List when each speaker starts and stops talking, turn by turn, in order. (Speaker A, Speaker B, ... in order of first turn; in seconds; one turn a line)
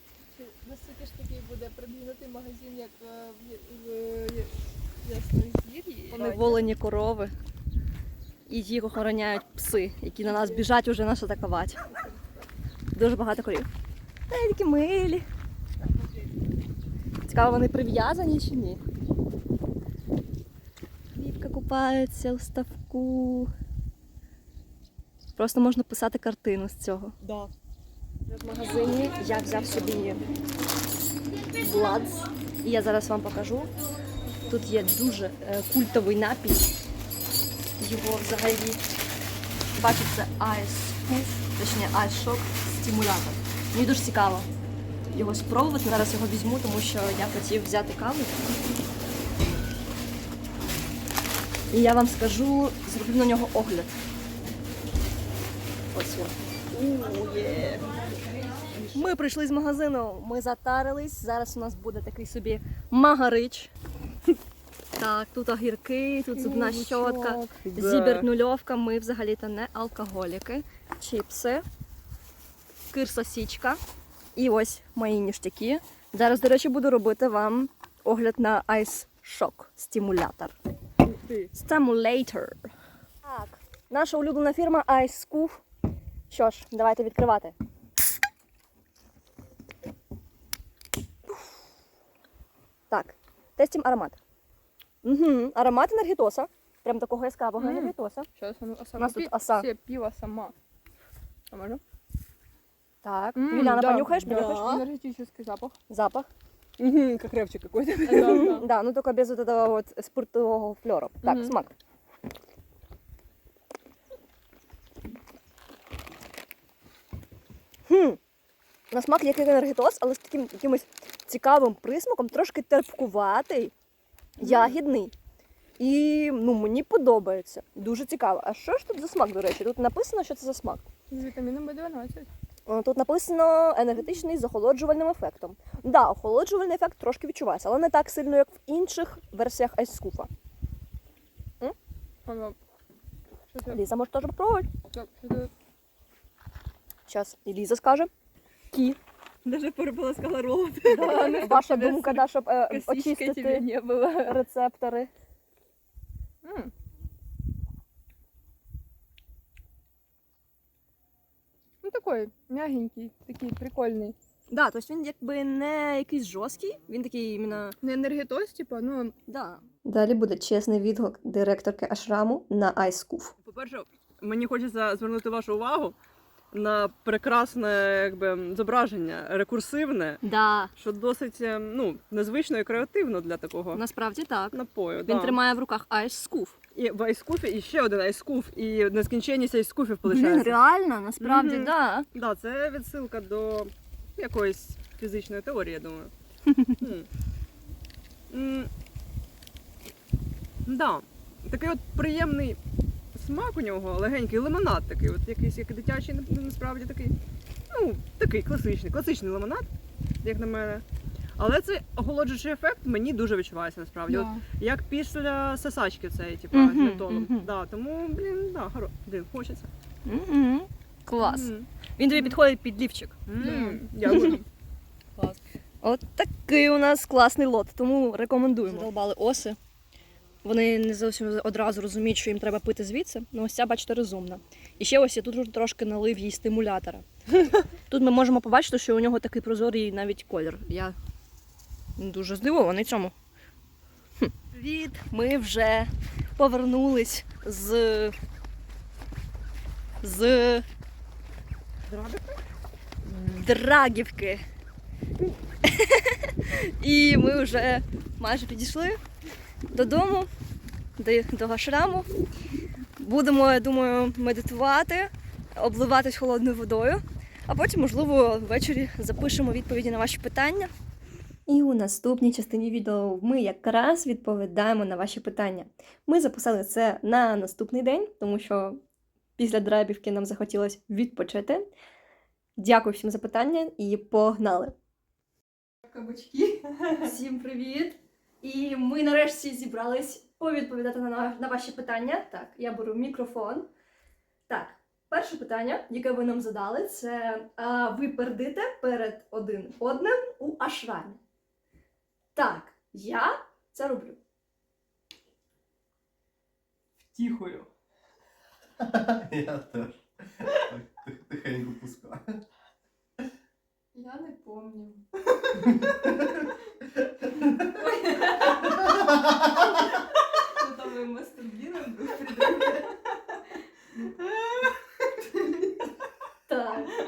Speaker A: 0.3-6.7
Speaker B: 6.1-7.3
Speaker B: 8.5-11.8
Speaker A: 10.3-10.6
Speaker B: 12.9-13.7
Speaker B: 14.3-15.2
Speaker B: 17.3-18.8
Speaker B: 21.1-23.5
Speaker B: 25.4-27.1
Speaker C: 27.2-27.5
Speaker B: 28.3-30.2
Speaker B: 31.6-33.7
Speaker A: 33.8-34.9
Speaker B: 34.5-36.7
Speaker B: 37.8-38.8
Speaker B: 39.7-44.5
Speaker B: 45.1-48.6
Speaker B: 51.7-54.0
Speaker B: 55.9-56.3
Speaker C: 56.7-59.1
Speaker B: 58.9-63.7
Speaker B: 65.0-71.6
Speaker C: 66.3-68.3
Speaker B: 72.9-73.8
Speaker B: 74.3-80.5
Speaker C: 81.0-81.5
Speaker B: 81.5-82.7
Speaker B: 83.2-85.6
Speaker B: 86.3-87.5
Speaker B: 92.9-94.2
Speaker B: 95.0-98.3
Speaker A: 97.6-100.5
Speaker B: 99.0-99.7
Speaker A: 101.5-101.8
Speaker B: 103.0-104.8
Speaker A: 103.3-105.7
Speaker C: 104.2-104.7
Speaker B: 105.9-106.3
Speaker C: 106.8-108.5
Speaker A: 108.0-108.7
Speaker B: 108.2-111.7
Speaker A: 111.2-111.5
Speaker B: 117.9-118.2
Speaker B: 118.9-123.7
Speaker B: 124.4-125.1
Speaker A: 124.4-124.8
Speaker B: 125.8-130.9
Speaker A: 131.1-132.3
Speaker B: 132.7-140.3
Speaker A: 142.2-142.6
Speaker A: 143.5-143.8
Speaker B: 143.7-144.7
Speaker A: 144.9-145.5
Speaker B: 147.1-148.1
Speaker B: 148.7-149.0
Speaker C: 149.4-151.5
Speaker B: 150.8-155.1
Speaker A: 151.2-152.2
Speaker A: 152.7-154.3
Speaker A: 156.4-156.7
Speaker A: 161.8-164.2
Speaker B: 164.5-167.8
Speaker A: 167.8-169.1
Speaker B: 169.3-173.3
Speaker C: 173.4-176.0
Speaker C: 176.5-180.2
Speaker B: 180.2-180.7
Speaker C: 180.8-183.8
Speaker B: 183.7-186.6
Speaker C: 184.5-185.4
Speaker C: 186.7-190.6
Speaker B: 190.0-192.1
Speaker C: 191.2-196.1
Speaker B: 196.4-196.8
Speaker C: 196.8-197.1
Speaker C: 198.3-198.7
Speaker C: 200.7-202.6
Speaker C: 203.1-207.2
Speaker C: 207.7-209.7
Speaker C: 210.2-210.8
Speaker C: 211.4-219.7
Speaker B: 216.5-217.5
Speaker B: 220.0-223.2
Speaker C: 221.2-222.4
Speaker C: 223.3-224.4
Speaker A: 223.4-224.3
Speaker B: 224.1-224.3
Speaker B: 225.8-229.6
Speaker B: 230.4-237.0
Speaker B: 237.9-240.9
Speaker B: 242.0-243.1
Speaker B: 244.2-248.1
Speaker B: 250.0-250.6
Speaker C: 251.9-252.4
Speaker B: 253.1-254.4
Speaker B: 255.6-259.0
Speaker B: 259.7-260.3
Speaker B: 261.0-262.1
Speaker B: 263.0-270.7
Speaker B: 271.5-278.8
Speaker B: 279.4-281.7
Speaker B: 282.6-284.7
Speaker A: 285.8-286.6
Speaker B: 287.0-293.7
Speaker B: 294.5-301.2
Speaker B: 302.3-304.2
Speaker C: 307.0-307.7
Speaker D: 308.8-312.4
Speaker A: 313.9-315.0
Speaker D: 315.6-316.4
Speaker A: 317.4-322.9
Speaker D: 318.9-319.5
Speaker C: 324.2-324.8
Speaker C: 325.4-325.7
Speaker B: 326.5-326.9